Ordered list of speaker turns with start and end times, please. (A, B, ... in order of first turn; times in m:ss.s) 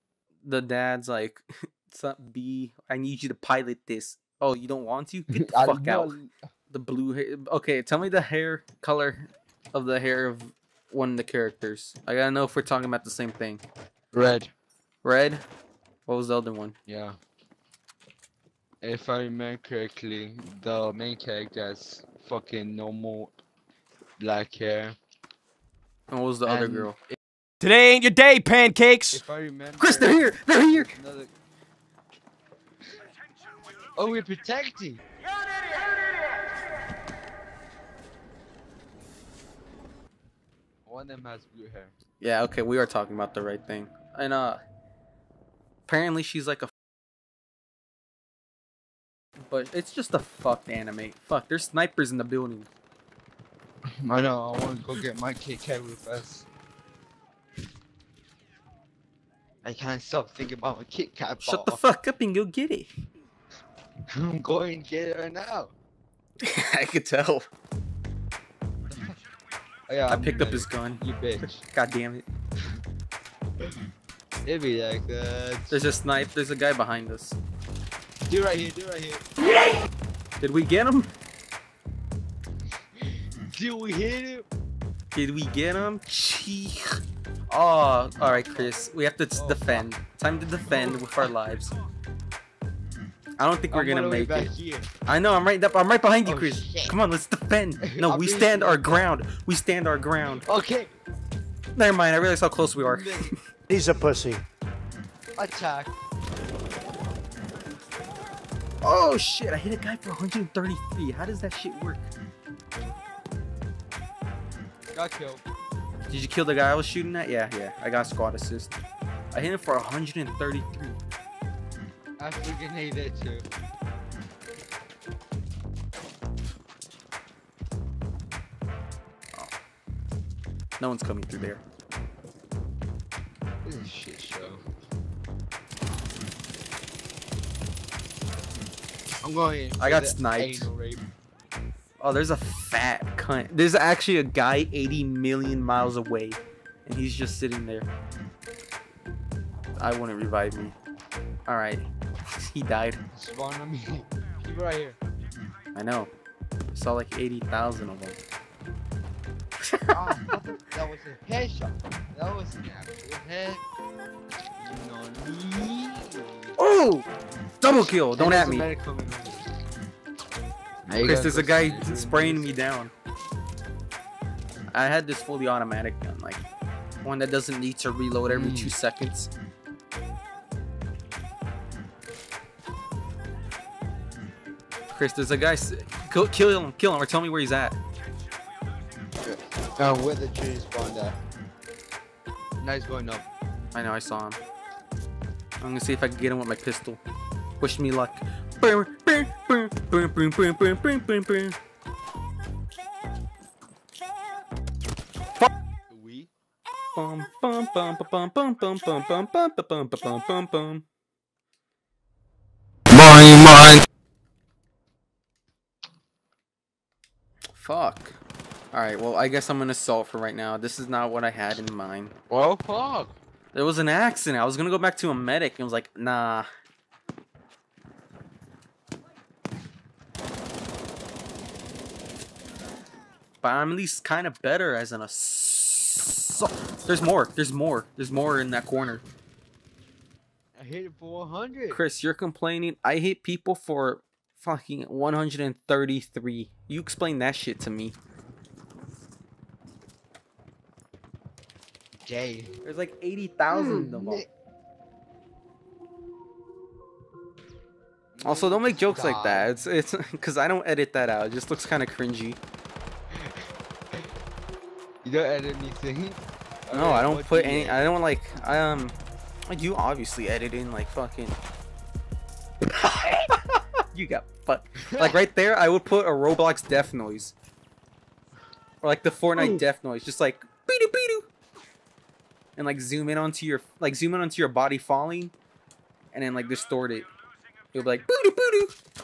0:00.4-0:06.2 A
0:05.3-0:06.3 B
0:06.7-0:13.6 A
0:14.1-0:14.5 B
0:15.0-0:15.4 A
0:16.1-0:16.8 A
0:16.9-0:17.1 B
0:18.8-0:23.3 B
0:24.2-0:25.0 B
0:26.1-0:27.0 A
0:26.5-0:26.9 B
0:27.6-0:29.2 C
0:29.1-0:30.2 B
0:29.8-0:30.9 A
0:30.7-0:31.3 B
0:34.0-0:35.0 B
0:40.9-0:41.9 B
0:42.2-0:44.6 A
0:45.9-0:46.7 A
0:49.5-0:52.7 A
0:54.0-0:56.5 B
0:59.6-1:01.8 B
1:01.4-1:02.9 A
1:04.1-1:05.7 B
1:06.4-1:07.5 A
1:09.9-1:11.6 B
1:10.1-1:11.0 A
1:11.6-1:12.2 A
1:14.4-1:15.8 B
1:15.7-1:17.4 A
1:18.3-1:19.2 B
1:20.4-1:21.1 A
1:23.0-1:24.5 B
1:25.1-1:26.8 A
1:27.5-1:31.7 A
1:28.2-1:28.7 B
1:29.4-1:29.9 B
1:30.7-1:31.0 B
1:33.4-1:34.5 A
1:33.7-1:34.9 B
1:35.1-1:40.4 A
1:36.2-1:37.0 B
1:37.8-1:39.1 B
1:40.4-1:41.0 B
1:41.8-1:43.4 A
1:42.8-1:43.4 B
1:43.7-1:44.4 C
1:45.4-1:46.0 B
1:48.8-1:52.1 A
1:54.9-1:55.4 B
1:56.1-1:58.8 A
1:59.3-2:01.0 A
2:02.2-2:03.5 B
2:10.8-2:11.6 A
2:13.6-2:14.6 B
2:19.2-2:21.1 B
2:19.8-2:20.7 A
2:22.0-2:27.9 A
2:29.8-2:30.8 A
2:31.5-2:33.0 A
2:33.1-2:35.0 B
2:35.8-2:36.1 A
2:36.7-2:38.2 A
2:39.6-2:40.3 A
2:39.9-2:43.6 B
2:44.6-2:46.6 B
2:46.6-2:47.1 A
2:47.6-2:48.7 A
2:48.1-2:49.5 B
2:50.9-2:52.5 B
2:51.0-2:52.9 A
2:54.7-2:56.4 A
2:57.0-2:59.3 A
2:58.3-2:58.7 B
3:04.9-3:07.8 A
3:09.2-3:11.2 B
3:12.6-3:13.3 B
3:13.7-3:14.4 A
3:15.6-3:17.0 A
3:17.6-3:21.6 A
3:25.9-3:26.3 B
3:27.0-3:30.8 A
3:32.9-3:33.8 A
3:37.6-3:38.2 A
3:38.7-3:42.1 A
3:42.3-3:43.1 B
3:43.5-3:46.5 A
3:53.4-3:59.0 A
4:00.6-4:01.8 B
4:01.7-4:08.0 A
4:12.0-4:12.6 B
4:12.6-4:14.2 A
4:13.5-4:14.3 B
4:18.2-4:19.5 B
4:18.2-4:22.4 A
4:23.1-4:23.4 B
4:25.0-4:27.8 B
4:26.7-4:29.0 A
4:29.5-4:31.4 A
4:32.6-4:37.4 A
4:38.8-4:41.3 A
4:39.4-4:39.6 B
4:42.6-4:45.3 A
4:46.1-4:47.1 A
4:47.7-4:48.7 A